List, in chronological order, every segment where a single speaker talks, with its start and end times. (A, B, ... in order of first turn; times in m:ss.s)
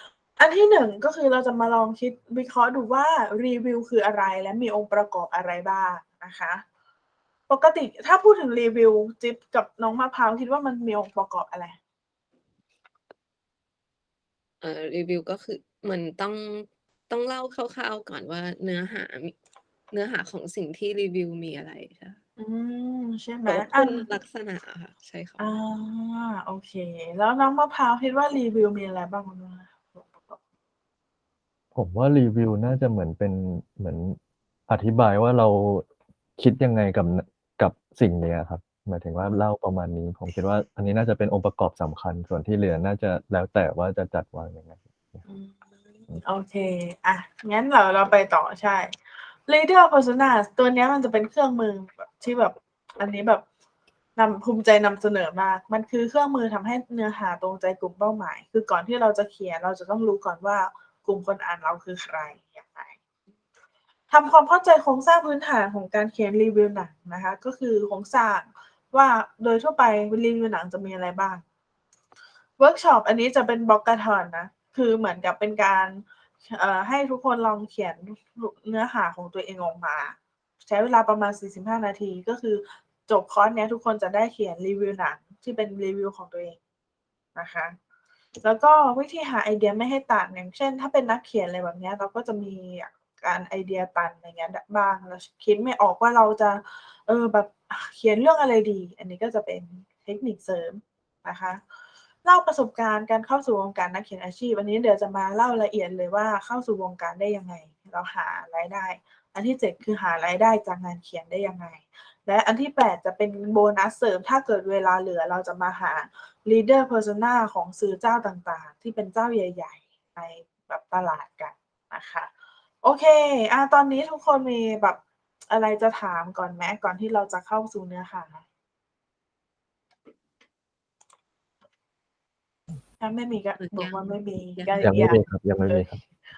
0:00.4-0:06.6 A
0:07.5-0:11.8 A
0:14.6-0:19.4 B
0:19.9-0:22.2 B
0:22.4-0:24.1 A
0:23.5-0:25.6 B
0:25.4-0:30.4 A
0:31.8-0:34.2 C
0:34.7-0:35.9 C
0:36.4-0:45.2 C
0:45.3-0:53.4 A
0:54.2-1:03.0 A
1:04.1-1:11.4 A
1:12.6-1:26.6 A
1:27.4-1:27.8 A
1:28.4-1:41.6 A
1:42.2-2:02.3 A
2:02.8-2:08.4 A
2:13.0-2:16.0 A
2:13.6-2:15.1 B
2:14.8-2:16.0 C